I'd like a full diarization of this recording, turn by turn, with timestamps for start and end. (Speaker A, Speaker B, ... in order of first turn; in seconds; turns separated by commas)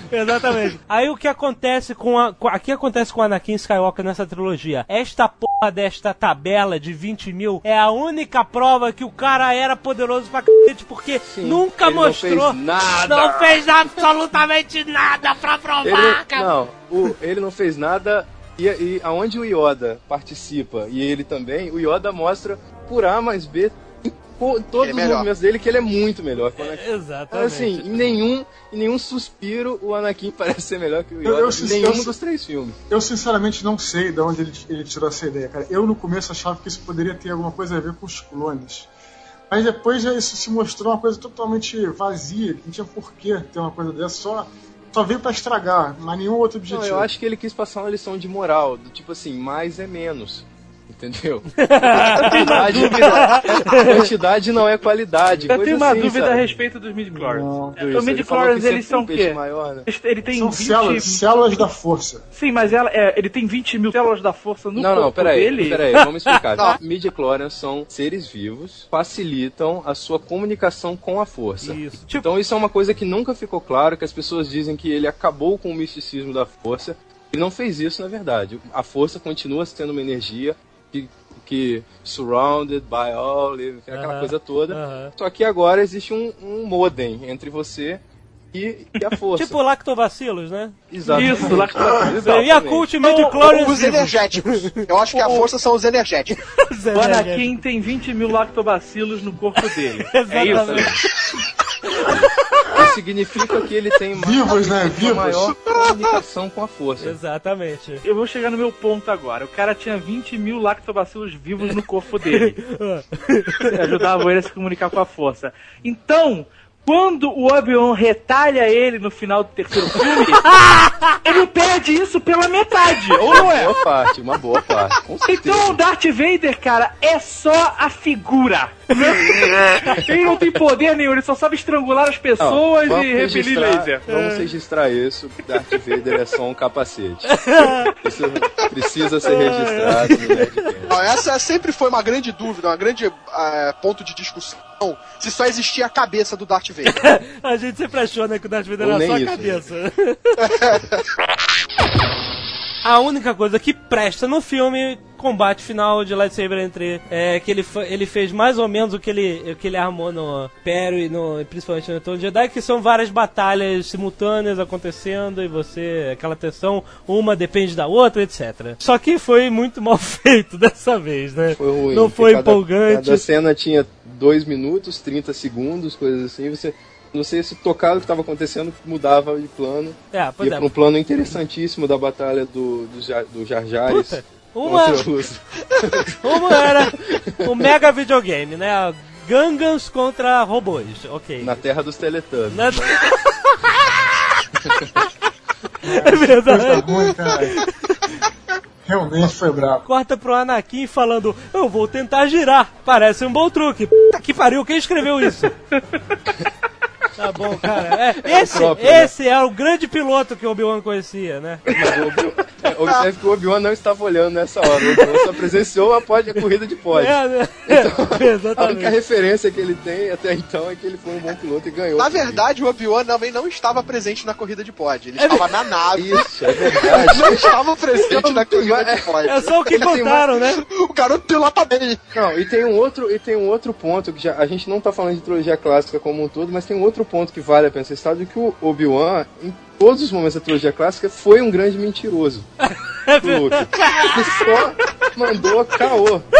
Speaker A: 0.1-16.5, Speaker B: 11.3-14.0, Speaker B: 15.8-32.8, Speaker C: 24.8-25.3, Speaker A: 26.6-28.1, Speaker D: 31.2-32.1, Speaker D: 32.9-38.9, Speaker D: 39.5-47.1, Speaker B: 46.7-56.6, Speaker A: 51.6-54.0, Speaker E: 52.0-53.4, Speaker E: 55.4-61.6, Speaker D: 57.1-57.8, Speaker B: 57.8-59.9, Speaker D: 60.3-62.2, Speaker E: 62.3-65.8, Speaker B: 64.8-89.6, Speaker A: 65.9-66.3, Speaker A: 71.6-72.3, Speaker A: 83.9-85.1, Speaker A: 89.3-91.6, Speaker B: 90.9-92.9, Speaker E: 91.1-92.5, Speaker A: 92.2-95.5, Speaker C: 93.0-96.3, Speaker A: 96.6-97.5, Speaker E: 96.9-100.9, Speaker A: 100.1-101.0, Speaker B: 100.4-101.0, Speaker A: 101.9-102.8, Speaker B: 102.7-107.2, Speaker D: 104.1-105.6, Speaker A: 107.0-108.0, Speaker E: 108.0-112.6, Speaker A: 112.3-113.8, Speaker E: 113.7-120.5, Speaker A: 120.5-121.2, Speaker E: 121.2-123.8, Speaker B: 123.2-125.8, Speaker E: 125.2-134.0, Speaker B: 132.4-140.9, Speaker A: 134.1-134.4, Speaker A: 137.3-137.9, Speaker A: 139.2-140.7, Speaker C: 140.8-147.0, Speaker A: 146.8-150.5, Speaker B: 148.8-149.6, Speaker C: 150.4-150.8, Speaker A: 152.8-173.2, Speaker B: 171.5-187.7, Speaker A: 180.1-180.7, Speaker A: 183.9-185.1, Speaker A: 186.2-191.6, Speaker B: 191.4-192.9, Speaker A: 192.5-194.1, Speaker B: 194.6-195.0, Speaker A: 195.8-196.9, Speaker D: 195.8-197.6, Speaker A: 197.5-198.0, Speaker D: 198.8-199.8, Speaker A: 199.8-205.5, Speaker A: 207.2-211.6, Speaker B: 208.2-209.1, Speaker B: 211.7-222.4, Speaker A: 214.8-215.3, Speaker A: 216.9-218.9, Speaker C: 222.0-232.1, Speaker A: 225.2-225.5, Speaker B: 225.9-230.2, Speaker A: 229.2-230.6, Speaker B: 232.1-242.5, Speaker A: 242.6-244.5, Speaker B: 243.2-246.2